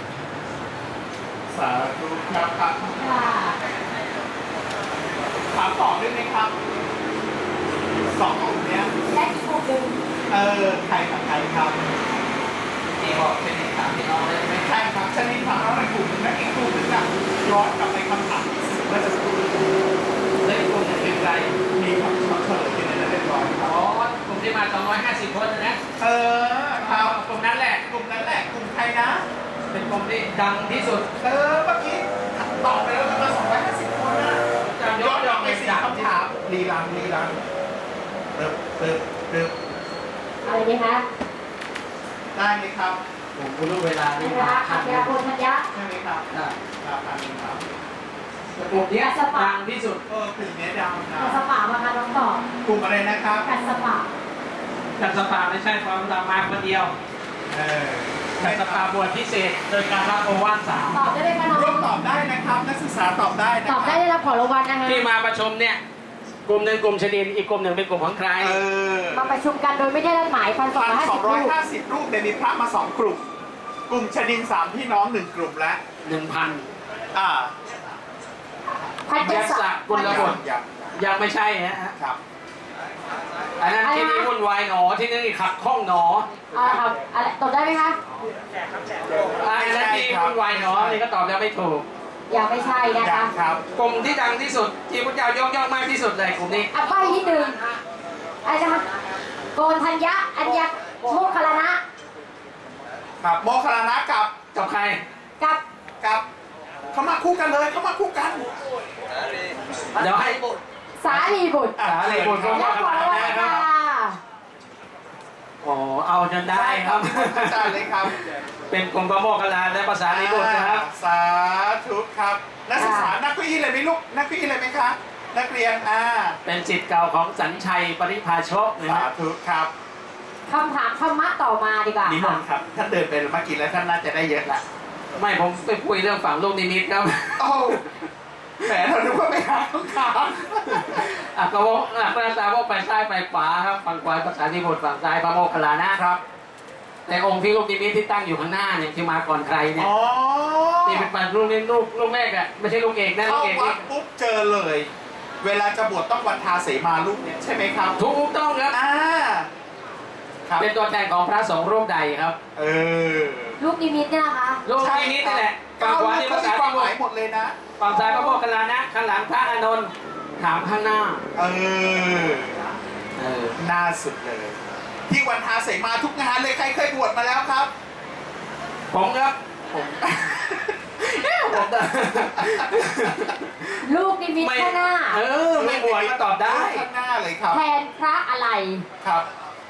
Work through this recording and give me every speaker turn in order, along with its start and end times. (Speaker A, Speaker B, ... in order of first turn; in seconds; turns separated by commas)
Speaker A: 1.5-3.3, Speaker B: 3.0-3.6, Speaker A: 5.5-6.5, Speaker A: 8.1-8.9, Speaker B: 9.1-9.9, Speaker A: 10.3-11.9, Speaker C: 13.0-14.7, Speaker A: 14.6-19.7, Speaker C: 20.4-21.6, Speaker A: 21.7-23.7, Speaker C: 23.6-25.8, Speaker A: 26.0-27.2, Speaker C: 26.8-27.8, Speaker A: 27.9-29.2, Speaker C: 29.7-31.1, Speaker A: 31.2-34.4, Speaker C: 34.6-36.1, Speaker A: 34.9-37.4, Speaker A: 38.3-39.5, Speaker B: 40.4-41.0, Speaker A: 42.3-43.0, Speaker C: 43.3-45.1, Speaker B: 44.2-45.6, Speaker A: 45.7-46.3, Speaker A: 46.8-47.6, Speaker C: 48.5-50.0, Speaker B: 48.9-49.6, Speaker A: 50.1-51.4, Speaker B: 51.2-52.5, Speaker A: 52.6-53.5, Speaker B: 53.4-54.1, Speaker C: 55.0-56.9, Speaker A: 57.5-58.9, Speaker C: 58.4-61.1, Speaker B: 60.9-61.8, Speaker A: 61.5-64.0, Speaker B: 63.7-65.0, Speaker C: 64.8-65.8, Speaker C: 66.5-68.6, Speaker A: 68.4-69.3, Speaker B: 69.1-71.5, Speaker A: 70.7-73.2, Speaker A: 73.9-75.8, Speaker C: 76.0-76.7, Speaker A: 77.1-77.5, Speaker A: 78.8-80.7, Speaker B: 79.1-80.3, Speaker C: 79.2-80.4, Speaker C: 81.0-81.9, Speaker C: 83.6-86.3, Speaker B: 83.8-84.3, Speaker B: 86.5-88.0, Speaker C: 89.4-91.8, Speaker A: 89.4-91.0, Speaker B: 92.3-93.3, Speaker A: 93.0-93.6, Speaker C: 93.8-96.7, Speaker B: 96.7-97.6, Speaker B: 98.4-98.8, Speaker B: 99.5-101.8, Speaker A: 103.2-104.3, Speaker C: 104.5-105.0, Speaker A: 106.9-108.5, Speaker C: 110.0-110.5, Speaker B: 111.0-111.8, Speaker C: 111.1-113.6, Speaker A: 111.8-113.7, Speaker B: 112.5-114.2, Speaker C: 115.6-118.1, Speaker A: 116.5-118.2, Speaker C: 118.7-120.8, Speaker A: 120.1-126.4, Speaker B: 122.8-123.1, Speaker C: 126.4-129.1, Speaker A: 128.8-129.7, Speaker B: 130.5-132.4, Speaker A: 132.1-134.6, Speaker C: 135.2-137.9, Speaker A: 137.4-137.8, Speaker A: 138.6-141.1, Speaker C: 140.7-146.0, Speaker A: 145.9-146.2, Speaker C: 147.1-149.9, Speaker A: 149.8-151.1, Speaker C: 150.8-153.8, Speaker A: 153.2-154.9, Speaker A: 155.4-158.0, Speaker C: 158.0-158.7, Speaker A: 158.7-159.5, Speaker C: 160.6-162.4, Speaker A: 162.6-163.6, Speaker B: 163.6-164.6, Speaker C: 164.6-166.9, Speaker A: 164.8-167.7, Speaker C: 167.8-171.2, Speaker B: 168.0-168.2, Speaker A: 171.3-172.6, Speaker C: 173.2-173.6, Speaker A: 173.6-177.7, Speaker C: 178.9-180.4, Speaker A: 180.1-180.7, Speaker C: 181.0-183.8, Speaker A: 182.4-183.3, Speaker B: 183.8-185.2, Speaker C: 184.4-186.8, Speaker A: 185.5-187.6, Speaker B: 187.5-188.8